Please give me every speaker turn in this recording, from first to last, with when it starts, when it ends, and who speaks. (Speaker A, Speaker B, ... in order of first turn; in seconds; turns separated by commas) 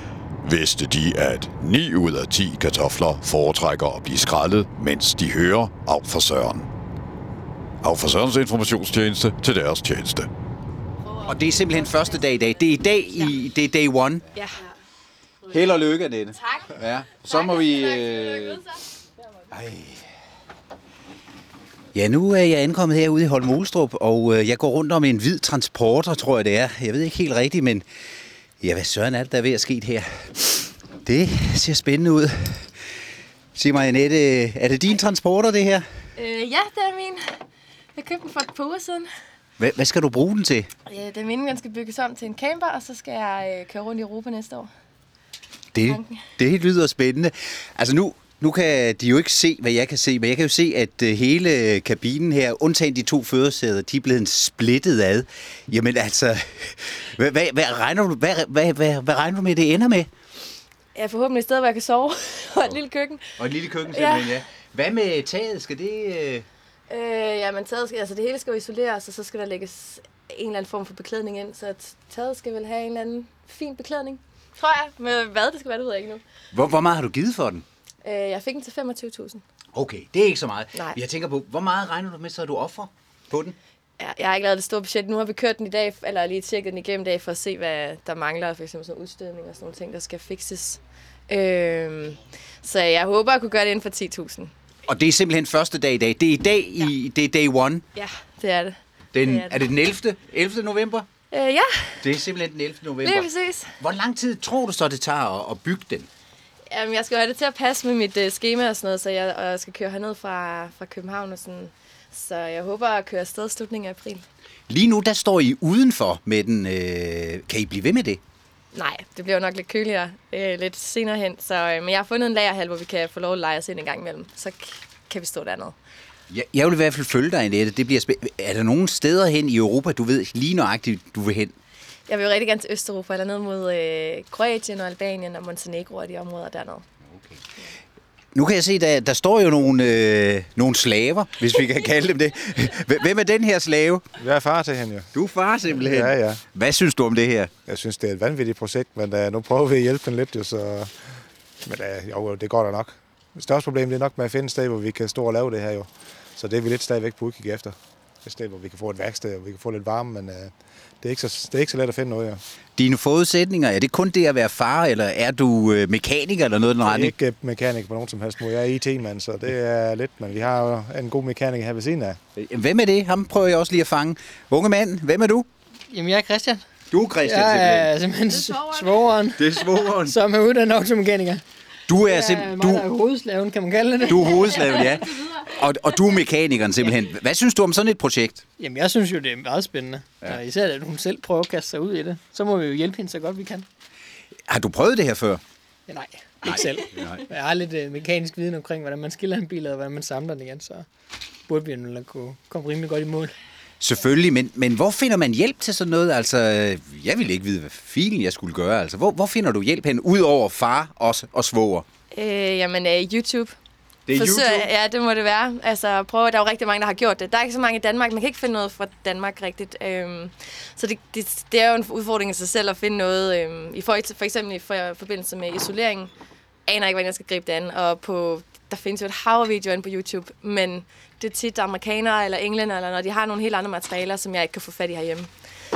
Speaker A: 0.4-6.7, Speaker A: 7.8-10.3, Speaker B: 11.0-13.4, Speaker C: 11.2-14.3, Speaker B: 14.3-14.7, Speaker B: 15.4-18.9, Speaker C: 15.5-18.6, Speaker C: 19.5-20.1, Speaker C: 21.9-27.9, Speaker C: 28.6-32.7, Speaker C: 33.5-35.9, Speaker B: 36.2-37.2, Speaker B: 38.0-39.1, Speaker C: 39.6-40.7, Speaker B: 40.9-44.7, Speaker C: 45.7-60.1, Speaker B: 45.8-46.3, Speaker B: 61.0-64.4, Speaker C: 63.4-66.5, Speaker B: 66.9-76.2, Speaker C: 76.5-77.6, Speaker B: 78.0-79.4, Speaker C: 79.7-83.6, Speaker B: 84.0-94.5, Speaker C: 94.9-97.8, Speaker B: 97.9-99.8, Speaker C: 99.1-101.1, Speaker B: 101.3-102.0, Speaker C: 102.0-106.1, Speaker B: 103.0-103.7, Speaker B: 106.7-114.2, Speaker C: 114.7-118.2, Speaker B: 118.7-125.8, Speaker C: 126.3-131.5, Speaker B: 132.1-136.8, Speaker C: 137.1-137.4, Speaker C: 138.3-144.0, Speaker D: 144.2-145.1, Speaker C: 145.1-147.5, Speaker D: 145.8-146.4, Speaker D: 147.7-150.9, Speaker D: 151.6-162.4, Speaker C: 162.8-167.1, Speaker D: 166.8-172.2, Speaker C: 172.3-175.5, Speaker E: 175.9-176.6, Speaker C: 176.9-177.9, Speaker E: 177.2-181.4, Speaker B: 178.3-179.0, Speaker C: 179.3-180.2, Speaker C: 181.9-182.9, Speaker E: 182.0-185.0, Speaker C: 184.1-188.4, Speaker B: 184.6-185.5, Speaker E: 188.6-193.7, Speaker C: 194.5-195.4, Speaker E: 195.9-200.9, Speaker C: 196.4-197.2, Speaker E: 201.5-203.3, Speaker C: 203.8-211.8, Speaker B: 212.1-213.5, Speaker C: 214.1-214.7, Speaker B: 214.1-226.1, Speaker B: 226.7-235.3